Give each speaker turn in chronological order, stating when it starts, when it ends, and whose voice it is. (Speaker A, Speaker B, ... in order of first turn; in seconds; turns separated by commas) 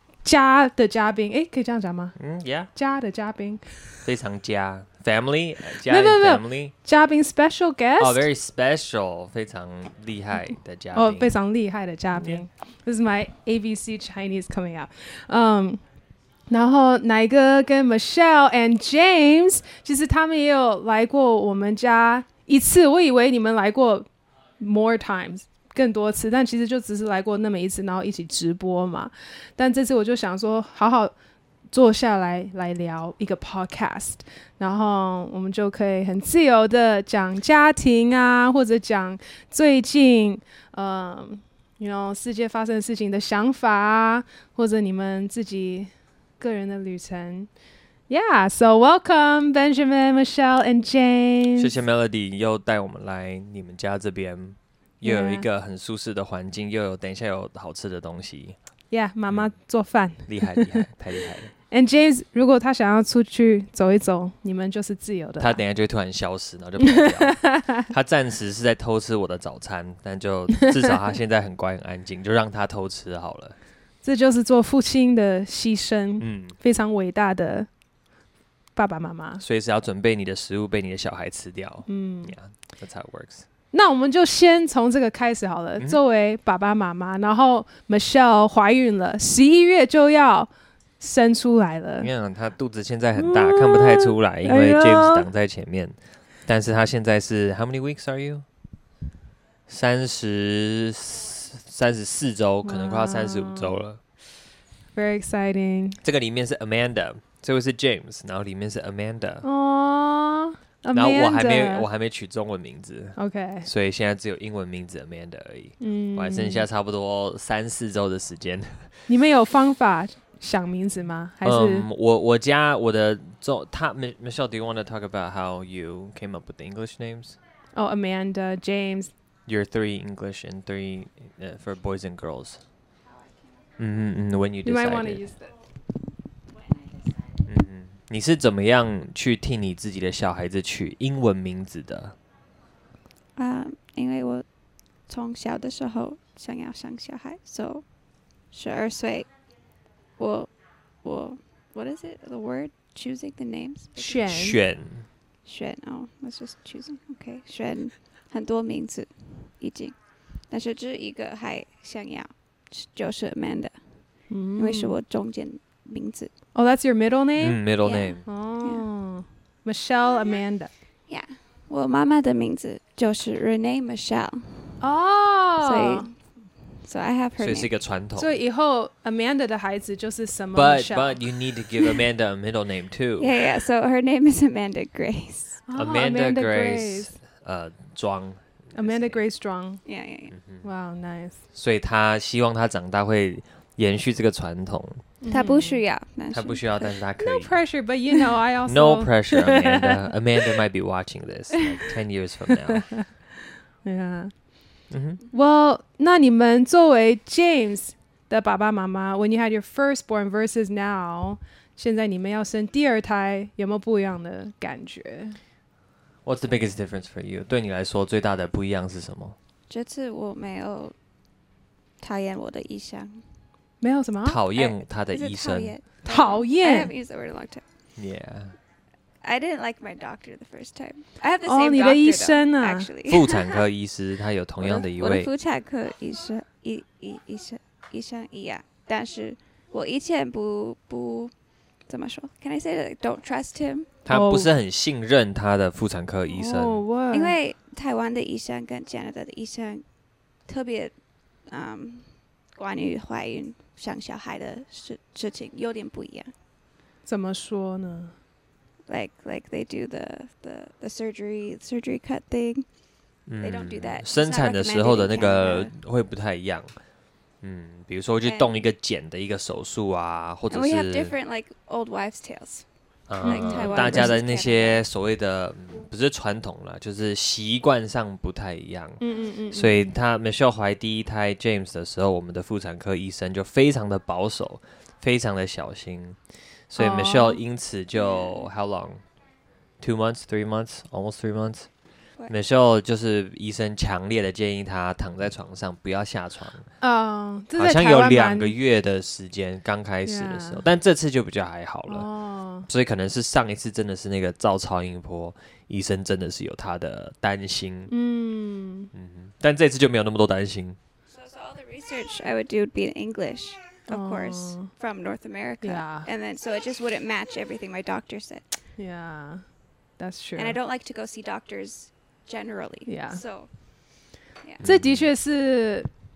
Speaker A: 0.2-2.1, Speaker B: 2.1-2.7, Speaker A: 2.7-3.6, Speaker B: 4.0-6.7, Speaker A: 5.8-8.2, Speaker B: 8.0-11.3, Speaker A: 10.9-15.8, Speaker A: 16.5-24.1, Speaker A: 24.6-31.1, Speaker A: 31.7-47.5, Speaker A: 48.1-51.7, Speaker B: 51.6-58.5, Speaker A: 55.0-55.4, Speaker A: 58.9-60.8, Speaker B: 59.3-59.5, Speaker B: 60.2-61.5, Speaker A: 61.7-65.6, Speaker B: 65.4-73.5, Speaker A: 66.8-67.9, Speaker A: 70.6-70.9, Speaker A: 74.0-77.7, Speaker B: 76.2-76.5, Speaker A: 78.8-79.4, Speaker B: 79.4-83.4, Speaker A: 81.9-82.4, Speaker A: 83.7-92.1, Speaker B: 92.0-98.4, Speaker A: 93.2-95.3, Speaker B: 99.7-104.0, Speaker A: 102.6-103.8, Speaker A: 104.9-106.0, Speaker B: 106.0-109.4, Speaker A: 109.4-111.8, Speaker B: 110.9-118.9, Speaker A: 113.2-113.7, Speaker A: 115.8-116.7, Speaker A: 119.1-121.8, Speaker B: 121.4-127.4, Speaker A: 127.7-129.1, Speaker B: 129.5-132.6, Speaker B: 133.8-135.2, Speaker A: 134.6-135.5, Speaker B: 137.4-142.1, Speaker C: 143.3-144.5, Speaker C: 145.0-147.9, Speaker C: 148.5-149.3, Speaker C: 150.2-154.3, Speaker A: 153.9-154.6, Speaker B: 154.3-155.1, Speaker C: 155.4-160.0, Speaker C: 160.5-166.3, Speaker A: 164.3-165.0, Speaker A: 166.5-167.6, Speaker B: 167.4-168.3, Speaker C: 167.8-168.8, Speaker A: 168.2-170.7, Speaker C: 171.1-174.8, Speaker A: 174.8-176.1, Speaker C: 175.6-177.7, Speaker B: 177.4-178.4, Speaker A: 178.2-181.2, Speaker B: 180.5-183.3, Speaker C: 183.2-185.6, Speaker A: 185.7-187.2, Speaker B: 185.8-189.2, Speaker A: 188.7-189.8, Speaker C: 189.8-190.3, Speaker B: 190.3-190.6, Speaker A: 190.6-191.4, Speaker B: 191.5-195.0, Speaker A: 195.2-195.8, Speaker C: 195.3-196.9, Speaker B: 196.3-197.5, Speaker A: 197.2-199.9, Speaker B: 198.7-202.9, Speaker A: 202.7-203.0, Speaker A: 203.8-204.3, Speaker B: 204.9-205.2, Speaker A: 205.3-215.4, Speaker B: 216.2-219.3, Speaker C: 219.7-220.9, Speaker C: 222.0-223.3, Speaker A: 223.8-224.4, Speaker B: 224.2-225.8, Speaker C: 224.5-227.6, Speaker A: 226.0-226.9, Speaker B: 228.0-228.6, Speaker C: 229.2-233.6, Speaker A: 231.4-232.9, Speaker B: 233.1-235.3, Speaker C: 234.6-241.3, Speaker C: 241.9-243.9, Speaker B: 244.1-246.8, Speaker A: 244.1-244.5, Speaker A: 246.3-247.3, Speaker C: 247.1-249.8, Speaker C: 250.4-250.9, Speaker C: 251.5-256.3, Speaker A: 257.0-258.1, Speaker C: 258.9-262.6, Speaker B: 263.3-266.7, Speaker C: 263.4-265.7, Speaker B: 267.4-271.1, Speaker C: 268.2-268.6, Speaker C: 270.5-272.6, Speaker B: 273.1-286.2, Speaker C: 273.2-274.8, Speaker A: 273.2-274.2, Speaker A: 279.0-279.9, Speaker B: 286.7-289.0, Speaker A: 286.8-287.4, Speaker B: 289.8-291.7, Speaker B: 292.3-296.7, Speaker A: 296.8-298.5, Speaker B: 297.6-302.1, Speaker A: 300.1-300.6, Speaker A: 301.9-302.6, Speaker B: 302.7-307.9, Speaker A: 307.9-308.9, Speaker B: 308.9-310.8, Speaker C: 311.1-318.5, Speaker A: 313.9-314.7, Speaker A: 315.6-316.1, Speaker A: 318.8-319.4, Speaker A: 320.0-320.6, Speaker C: 320.4-323.5, Speaker A: 322.9-323.2, Speaker B: 324.6-325.1, Speaker A: 324.6-325.9